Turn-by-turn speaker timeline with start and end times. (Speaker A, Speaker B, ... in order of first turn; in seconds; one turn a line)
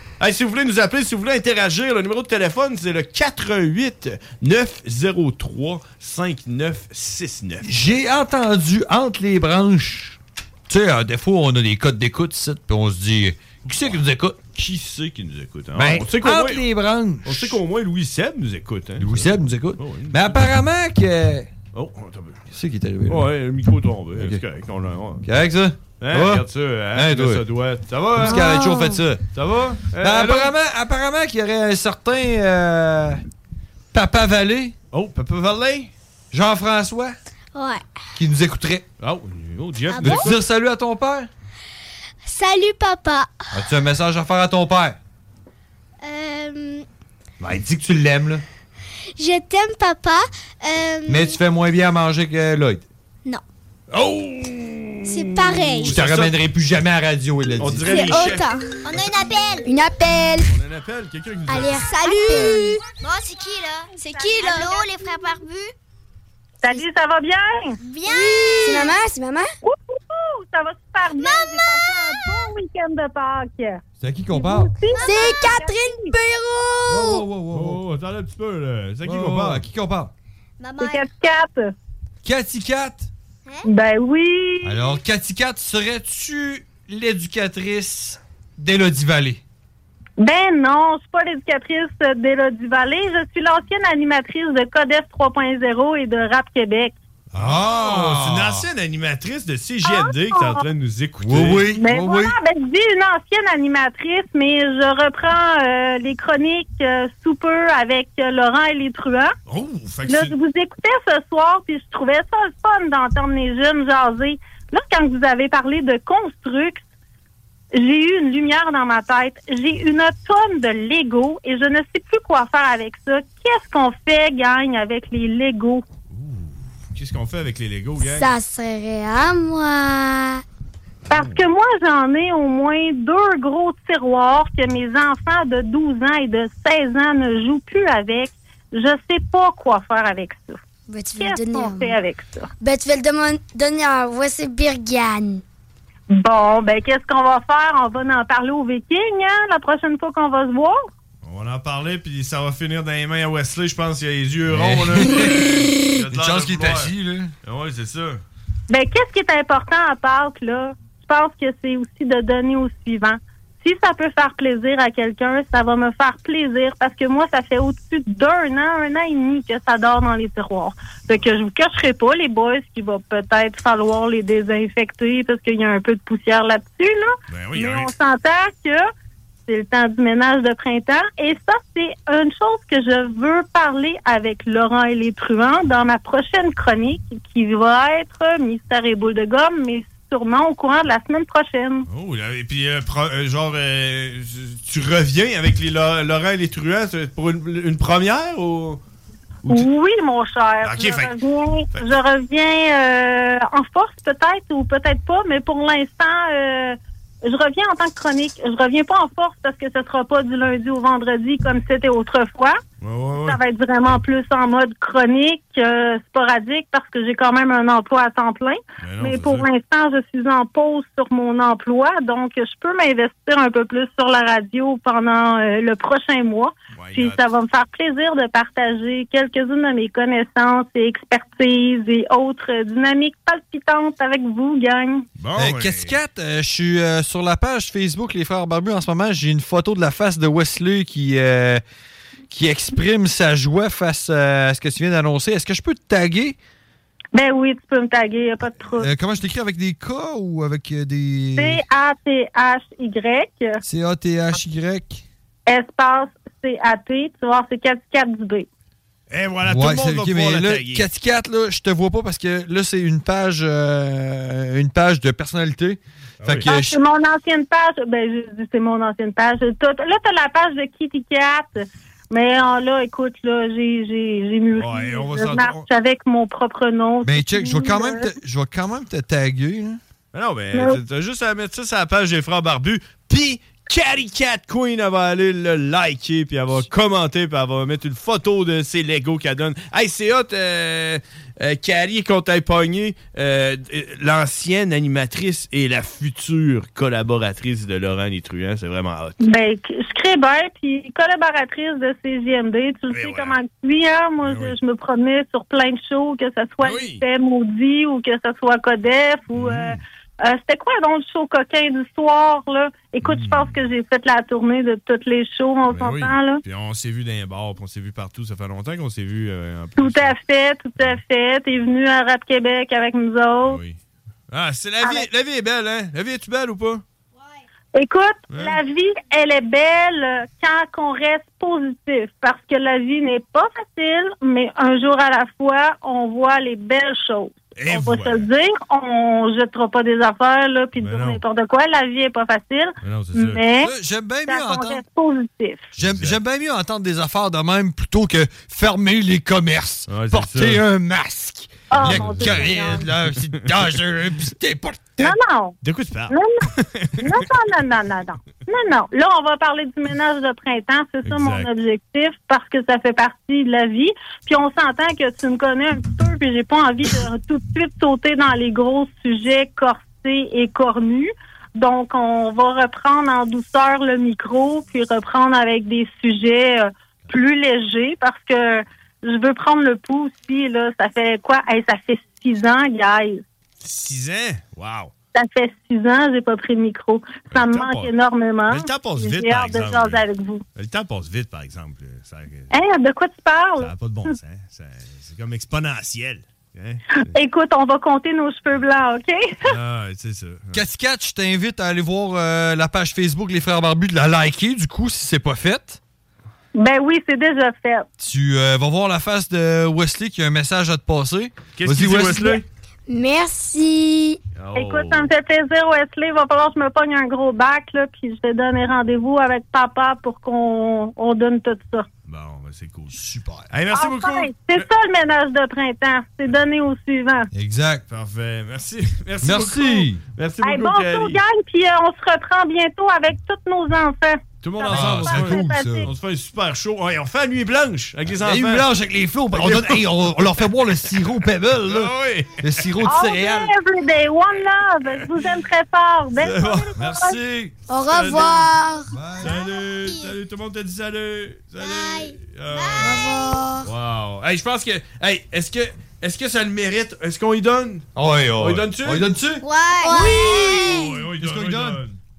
Speaker A: 0.2-7.7
Speaker B: 7.6-14.4
Speaker A: 14.5-16.6
Speaker B: 15.8-17.6
Speaker A: 17.2-20.4
Speaker B: 19.0-21.5
Speaker A: 21.7-22.4
Speaker B: 22.5-23.3
Speaker A: 23.1-25.2
Speaker B: 24.2-24.4
Speaker B: 25.2-27.4
Speaker A: 26.0-28.7
Speaker B: 28.1-29.2
Speaker C: 28.2-29.0
Speaker A: 29.3-30.5
Speaker B: 30.0-33.2
Speaker B: 33.9-34.8
Speaker A: 34.9-35.9
Speaker B: 36.3-37.2
Speaker D: 37.5-37.8
Speaker B: 38.1-38.9
Speaker A: 39.0-40.4
Speaker D: 39.9-40.4
Speaker B: 40.0-41.3
Speaker D: 42.2-43.5
Speaker B: 43.5-45.0
Speaker D: 46.0-46.9
Speaker B: 47.4-48.4
Speaker D: 49.2-51.4
Speaker B: 51.1-52.9
Speaker A: 53.9-56.4
Speaker D: 55.0-56.0
Speaker B: 55.9-58.2
Speaker A: 57.6-58.5
Speaker D: 57.9-59.6
Speaker C: 59.6-60.5
Speaker A: 60.5-61.9
Speaker C: 61.5-62.8
Speaker D: 61.8-65.6
Speaker C: 64.4-64.7
Speaker E: 66.6-67.8
Speaker D: 67.8-68.9
Speaker C: 68.1-69.5
Speaker E: 69.6-76.1
Speaker D: 71.1-72.2
Speaker B: 74.0-74.7
Speaker D: 74.9-75.4
Speaker C: 75.0-77.2
Speaker B: 76.9-77.8
Speaker A: 77.5-79.7
Speaker B: 79.0-80.1
Speaker D: 80.6-81.1
Speaker E: 80.8-81.8
Speaker B: 82.2-83.1
Speaker E: 83.7-84.8
Speaker B: 84.6-89.4
Speaker E: 90.2-97.0
Speaker B: 97.3-98.7
Speaker A: 97.3-101.7
Speaker E: 99.8-100.6
Speaker B: 101.2-102.3
Speaker E: 101.8-109.3
Speaker A: 109.5-110.3
Speaker E: 110.1-116.8
Speaker E: 117.7-125.8
Speaker A: 126.1-128.3
Speaker C: 128.0-130.4
Speaker A: 131.1-131.4
Speaker E: 131.1-140.6
Speaker C: 140.9-142.0
Speaker E: 141.2-142.5
Speaker C: 142.6-145.4
Speaker E: 146.1-150.9
Speaker A: 151.2-158.2
Speaker B: 154.5-157.3
Speaker E: 158.7-178.9
Speaker A: 177.3-177.9
Speaker E: 179.5-191.9
Speaker A: 191.9-198.8
Speaker E: 199.5-212.6
Speaker A: 200.6-201.2
Speaker A: 212.8-213.4
Speaker E: 213.3-235.1
Speaker A: 218.8-219.5
Speaker A: 226.7-227.2
Speaker A: 235.2-235.9
Speaker B: 235.4-241.6
Speaker B: 242.3-246.4
Speaker E: 247.1-248.9
Speaker B: 248.8-251.6
Speaker E: 251.4-253.6
Speaker B: 253.6-255.0
Speaker E: 255.5-258.5
Speaker A: 259.1-260.9
Speaker B: 259.4-266.8
Speaker A: 266.2-266.6
Speaker E: 266.5-278.1
Speaker A: 274.5-275.7
Speaker B: 277.0-279.8
Speaker A: 280.1-299.2
Speaker E: 299.2-316.4
Speaker A: 302.9-303.4
Speaker A: 304.2-304.6
Speaker A: 306.6-307.0
Speaker A: 309.3-309.8
Speaker A: 313.0-313.6
Speaker A: 315.7-320.2
Speaker E: 319.8-323.6
Speaker A: 323.4-323.8
Speaker A: 324.3-326.8
Speaker E: 327.8-343.7
Speaker A: 328.3-328.6
Speaker A: 337.6-338.3
Speaker A: 340.8-341.2
Speaker A: 342.8-343.4
Speaker B: 343.6-344.8
Speaker E: 344.3-345.7
Speaker B: 345.8-355.1
Speaker A: 345.8-346.2
Speaker A: 349.9-350.6
Speaker E: 351.7-352.9
Speaker A: 351.8-353.8
Speaker E: 355.0-355.6
Speaker A: 355.6-357.2
Speaker E: 356.1-356.5
Speaker E: 357.0-383.2
Speaker A: 361.0-361.5
Speaker A: 383.6-384.9
Speaker E: 385.1-390.4
Speaker A: 387.3-387.9
Speaker A: 388.5-390.0
Speaker A: 390.6-392.5
Speaker E: 392.5-393.7
Speaker A: 393.6-397.1
Speaker E: 397.0-399.5
Speaker A: 399.4-400.6
Speaker B: 400.5-405.8
Speaker E: 406.6-407.9
Speaker B: 408.0-412.4
Speaker A: 411.6-412.4
Speaker C: 412.9-414.2
Speaker A: 414.4-415.1
Speaker E: 414.6-421.9
Speaker A: 422.1-424.7
Speaker B: 422.9-423.5
Speaker E: 423.8-427.3
Speaker B: 427.3-427.8
Speaker A: 427.9-431.2
Speaker B: 429.2-430.0
Speaker E: 430.4-435.9
Speaker A: 434.4-438.7
Speaker B: 434.7-435.9
Speaker B: 438.1-443.5
Speaker A: 439.3-440.3
Speaker A: 441.6-442.9
Speaker E: 442.9-447.2
Speaker A: 444.8-445.2
Speaker A: 446.1-448.6
Speaker C: 447.7-448.9
Speaker B: 448.9-449.4
Speaker A: 449.2-457.9
Speaker D: 449.4-450.1
Speaker D: 451.6-453.1
Speaker C: 452.8-453.7
Speaker B: 458.0-459.4
Speaker A: 458.4-459.1
Speaker D: 459.5-460.9
Speaker C: 459.8-460.4
Speaker A: 460.1-462.0
Speaker B: 461.2-461.8